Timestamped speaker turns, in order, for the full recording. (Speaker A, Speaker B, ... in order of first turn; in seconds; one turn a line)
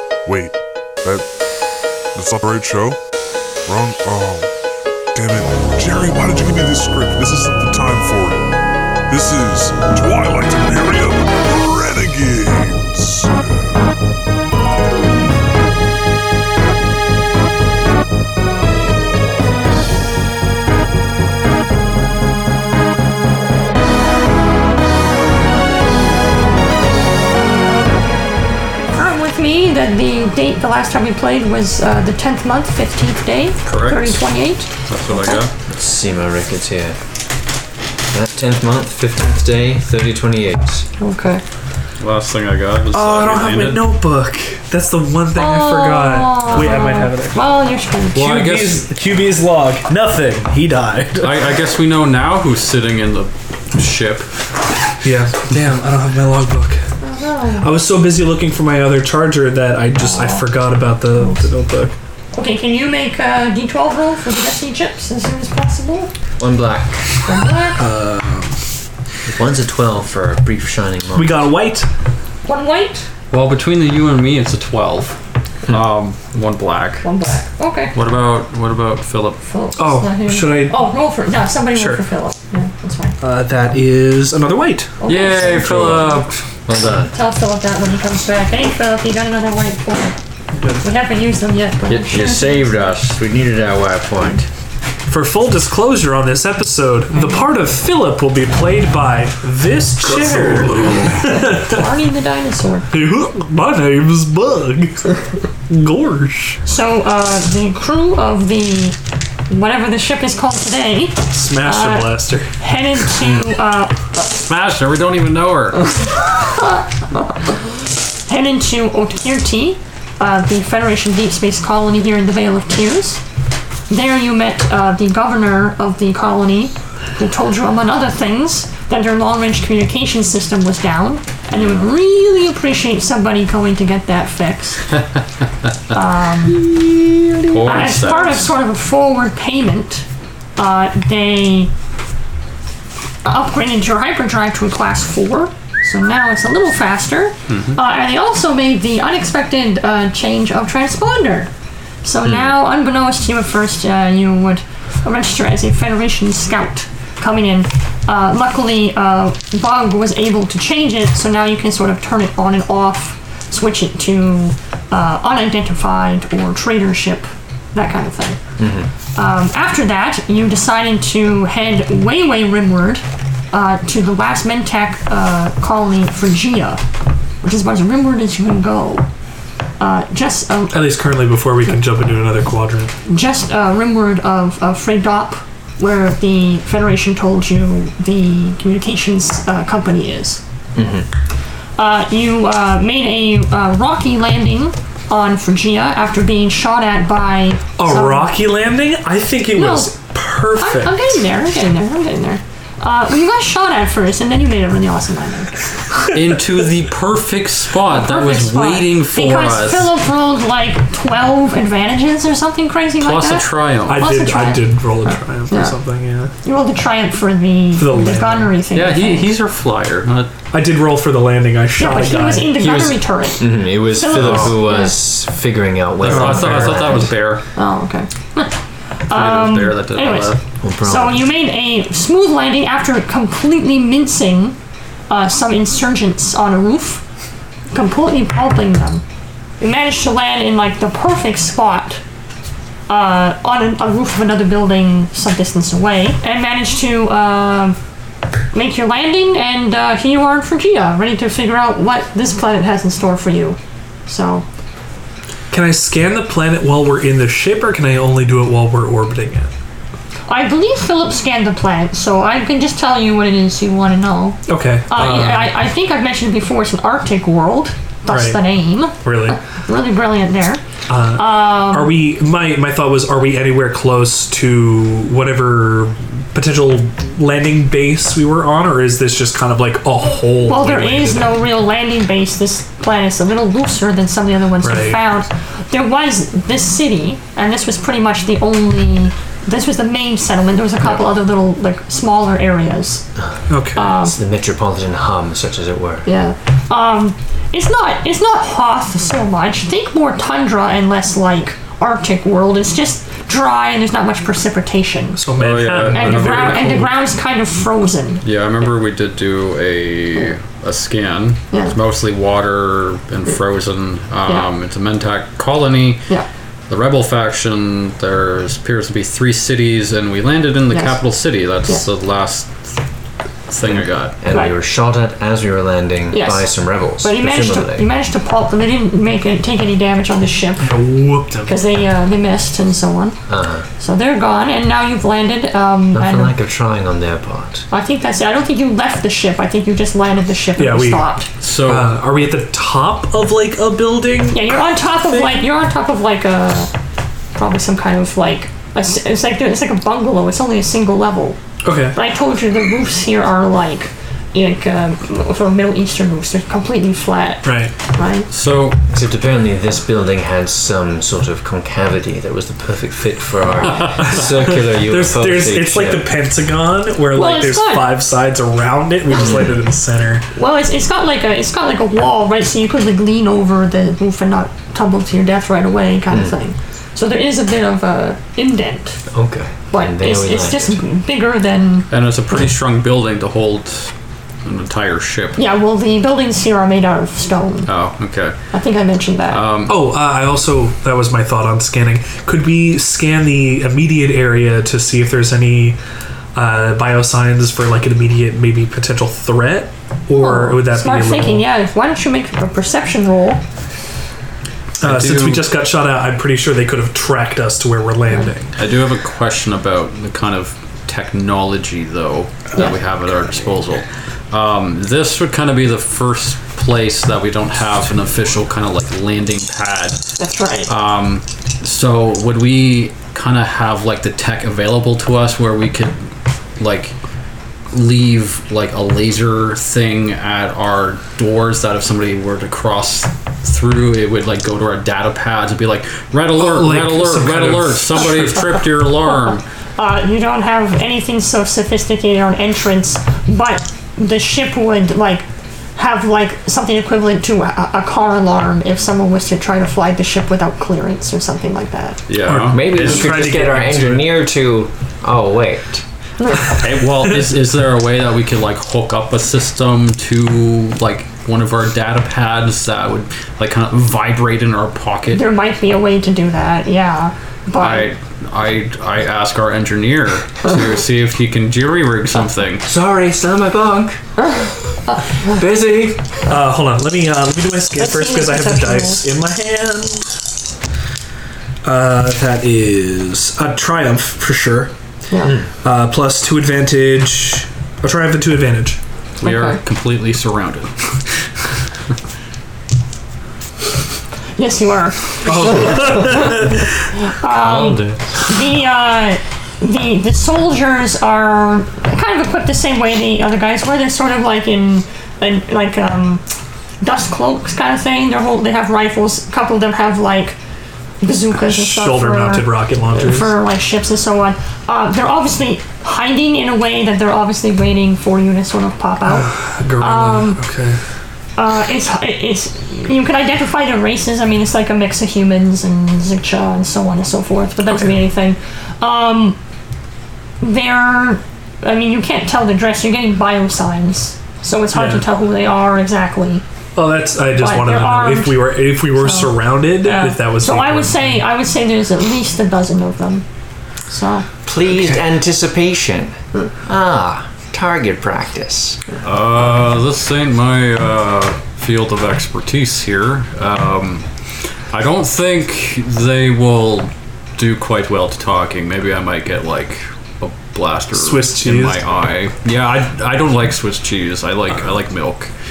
Speaker A: 0.3-1.3
Speaker A: 2.1-3.0
Speaker A: 3.7-4.5
Speaker A: 5.1-8.4
Speaker A: 9.1-13.5
Speaker B: 28.9-35.4
Speaker C: 33.7-34.2
Speaker C: 34.9-35.5
Speaker D: 35.7-37.0
Speaker D: 38.1-40.9
Speaker B: 41.0-41.4
Speaker C: 42.0-43.9
Speaker E: 42.9-47.4
Speaker B: 45.4-48.2
Speaker E: 48.1-51.5
Speaker C: 48.1-48.9
Speaker C: 51.2-54.3
Speaker E: 55.0-56.8
Speaker B: 57.0-57.7
Speaker E: 57.6-61.9
Speaker B: 60.0-60.5
Speaker B: 61.2-61.5
Speaker B: 62.3-66.1
Speaker D: 66.4-67.1
Speaker B: 67.2-67.8
Speaker E: 67.8-68.6
Speaker D: 69.3-71.5
Speaker E: 71.2-71.9
Speaker B: 72.5-73.1
Speaker C: 73.3-75.2
Speaker C: 75.7-77.0
Speaker B: 77.0-78.0
Speaker C: 77.9-79.4
Speaker B: 79.4-83.2
Speaker E: 79.8-80.8
Speaker E: 81.7-82.0
Speaker E: 83.2-84.9
Speaker B: 85.0-85.6
Speaker C: 85.1-86.4
Speaker D: 85.3-87.1
Speaker B: 87.1-90.2
Speaker B: 90.8-92.7
Speaker D: 91.9-94.5
Speaker E: 95.1-101.8
Speaker B: 97.1-97.5
Speaker B: 101.3-102.9
Speaker E: 102.9-105.2
Speaker E: 105.7-106.6
Speaker B: 106.7-109.0
Speaker B: 109.5-114.2
Speaker E: 111.3-112.5
Speaker C: 114.5-115.9
Speaker B: 118.3-123.2
Speaker B: 123.9-134.9
Speaker B: 135.9-136.7
Speaker C: 136.6-138.5
Speaker B: 137.7-140.1
Speaker B: 140.6-141.7
Speaker B: 143.2-151.5
Speaker C: 147.5-147.8
Speaker B: 152.0-168.4
Speaker D: 152.2-152.5
Speaker D: 168.6-168.9
Speaker B: 169.2-176.8
Speaker B: 177.4-179.1
Speaker B: 179.8-181.0
Speaker E: 180.7-182.9
Speaker B: 183.1-190.4
Speaker D: 190.8-191.1
Speaker B: 191.8-198.4
Speaker E: 197.8-201.1
Speaker B: 199.5-199.9
Speaker B: 200.6-205.7
Speaker C: 206.1-209.9
Speaker B: 207.9-214.9
Speaker C: 213.0-214.1
Speaker E: 213.9-216.3
Speaker B: 216.4-219.3
Speaker E: 217.8-218.5
Speaker C: 218.7-220.3
Speaker E: 220.5-223.0
Speaker B: 221.8-224.9
Speaker D: 223.4-227.1
Speaker C: 224.2-224.5
Speaker C: 226.0-227.4
Speaker E: 226.1-227.0
Speaker B: 227.0-228.6
Speaker B: 229.1-234.6
Speaker C: 229.1-230.4
Speaker D: 230.6-231.2
Speaker B: 235.1-237.0
Speaker B: 237.7-239.0
Speaker B: 239.6-242.0
Speaker B: 242.9-247.8
Speaker B: 248.5-254.5
Speaker E: 255.5-259.5
Speaker B: 260.3-270.6
Speaker E: 264.5-265.5
Speaker E: 268.1-268.4
Speaker E: 269.0-269.4
Speaker E: 270.9-281.4
Speaker B: 271.1-272.0
Speaker B: 280.4-293.1
Speaker E: 284.6-285.0
Speaker E: 293.5-293.9
Speaker B: 293.7-294.2
Speaker D: 294.0-296.1
Speaker B: 296.1-305.2
Speaker E: 305.2-306.9
Speaker C: 305.4-306.9
Speaker B: 305.9-308.2
Speaker C: 308.2-316.1
Speaker C: 316.7-322.7
Speaker B: 320.7-321.0
Speaker C: 323.5-324.2
Speaker D: 323.7-327.9
Speaker B: 326.1-330.9
Speaker E: 330.6-331.6
Speaker B: 331.4-333.2
Speaker D: 333.3-333.7
Speaker B: 333.8-336.4
Speaker D: 335.9-337.7
Speaker B: 337.7-341.3
Speaker E: 340.6-341.1
Speaker C: 341.4-342.0
Speaker E: 341.6-344.6
Speaker B: 344.3-346.7
Speaker B: 347.4-351.4
Speaker E: 351.6-352.0
Speaker B: 351.9-358.3
Speaker E: 357.4-357.7
Speaker C: 358.3-358.8
Speaker D: 358.9-366.1
Speaker E: 364.1-370.3
Speaker B: 367.1-368.0
Speaker D: 369.1-369.5
Speaker B: 370.4-379.0
Speaker D: 379.1-380.8
Speaker B: 379.7-381.9
Speaker C: 381.9-383.9
Speaker C: 384.4-385.4
Speaker B: 385.4-387.7
Speaker C: 387.7-388.4
Speaker B: 388.5-389.4
Speaker C: 389.3-389.9
Speaker E: 389.7-395.8
Speaker E: 396.4-401.5
Speaker B: 400.2-403.4
Speaker E: 404.8-408.5
Speaker C: 404.8-405.6
Speaker C: 408.6-420.1
Speaker B: 420.2-420.7
Speaker C: 420.7-426.0
Speaker C: 426.6-426.9
Speaker C: 427.7-439.4
Speaker E: 436.4-438.4
Speaker B: 439.8-452.0
Speaker C: 452.1-453.6
Speaker E: 452.3-454.1
Speaker D: 452.3-455.8
Speaker C: 456.4-465.3
Speaker B: 465.1-467.9
Speaker C: 467.6-472.7
Speaker D: 472.6-474.0
Speaker B: 474.2-475.3
Speaker D: 475.2-476.1
Speaker E: 476.3-480.1
Speaker B: 477.8-479.0
Speaker E: 481.6-484.7
Speaker B: 485.1-485.4
Speaker E: 485.6-488.8
Speaker C: 489.2-490.7
Speaker B: 489.2-489.6
Speaker B: 494.4-496.5
Speaker E: 495.2-496.6
Speaker B: 497.1-506.2
Speaker C: 497.4-498.0
Speaker B: 506.8-510.4
Speaker B: 511.0-520.4
Speaker E: 511.3-513.4
Speaker E: 519.0-520.8
Speaker B: 521.4-529.4
Speaker B: 530.4-536.4
Speaker E: 534.7-535.0
Speaker E: 536.8-541.2
Speaker B: 537.4-543.2
Speaker B: 543.9-544.3
Speaker D: 544.5-548.8
Speaker C: 549.0-554.0
Speaker C: 554.7-565.3
Speaker E: 560.9-561.8